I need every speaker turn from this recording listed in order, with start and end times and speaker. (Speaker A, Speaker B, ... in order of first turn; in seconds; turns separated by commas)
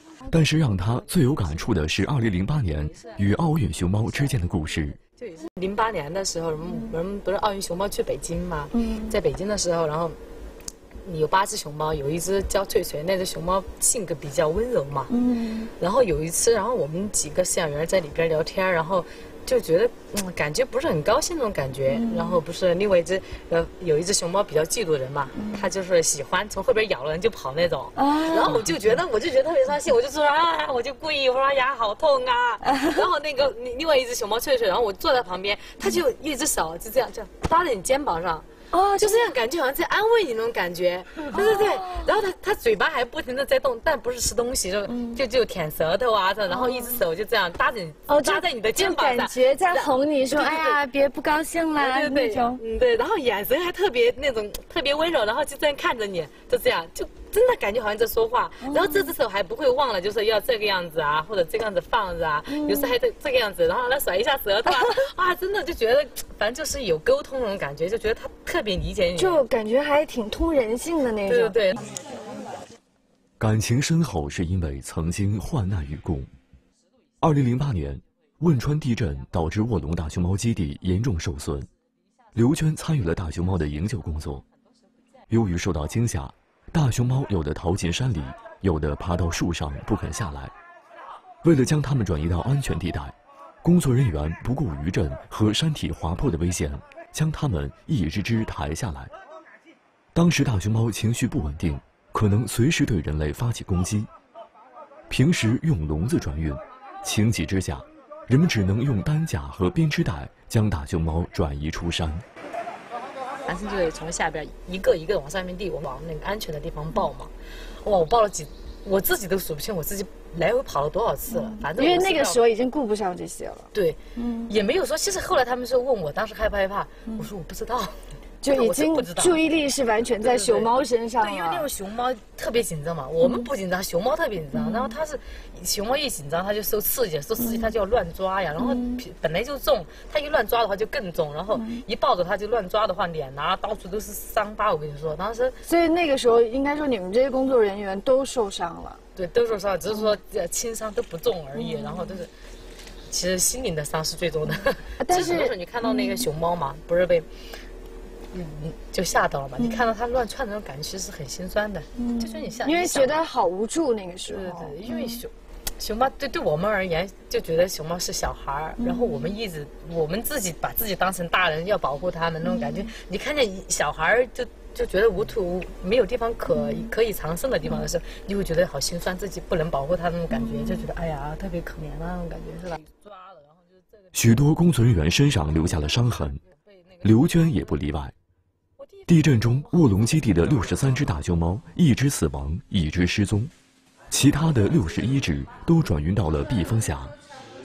Speaker A: 0.3-5.0, Speaker B: 2.7-4.6, Speaker B: 5.2-10.2, Speaker C: 8.7-9.1, Speaker B: 11.0-15.1, Speaker C: 15.1-15.7, Speaker B: 15.8-38.5, Speaker C: 21.9-22.4, Speaker C: 25.4-25.7, Speaker C: 27.9-28.7, Speaker C: 32.6-33.0, Speaker C: 38.7-39.3, Speaker B: 39.0-50.8, Speaker C: 41.3-42.1, Speaker C: 44.9-45.2, Speaker C: 46.5-47.0, Speaker C: 48.1-52.6, Speaker B: 51.8-69.4, Speaker C: 58.6-59.1, Speaker C: 62.5-62.9, Speaker C: 69.1-71.6, Speaker B: 71.2-71.9, Speaker A: 73.4-76.3, Speaker A: 77.2-81.7, Speaker A: 82.3-84.4, Speaker A: 85.3-90.5, Speaker A: 91.4-99.1, Speaker A: 100.1-104.1, Speaker A: 105.1-112.2, Speaker B: 113.4-117.3, Speaker B: 117.8-122.4, Speaker C: 121.3-124.5, Speaker B: 123.7-129.4, Speaker C: 128.4-131.7, Speaker B: 130.2-145.6, Speaker C: 133.2-133.5, Speaker C: 134.5-134.9, Speaker C: 137.4-137.7, Speaker C: 138.6-139.0, Speaker C: 141.5-141.8, Speaker C: 145.6-149.0, Speaker B: 149.2-152.3, Speaker C: 151.5-152.2, Speaker B: 153.1-157.3, Speaker C: 154.5-156.3, Speaker B: 158.3-163.2, Speaker C: 162.0-165.2, Speaker B: 164.2-184.1, Speaker C: 168.8-169.3, Speaker C: 172.4-172.9, Speaker C: 176.5-176.9, Speaker C: 180.3-180.8, Speaker A: 184.1-186.4, Speaker B: 185.8-187.6, Speaker A: 187.0-188.1, Speaker B: 188.8-189.4, Speaker A: 189.1-193.5, Speaker A: 194.1-197.1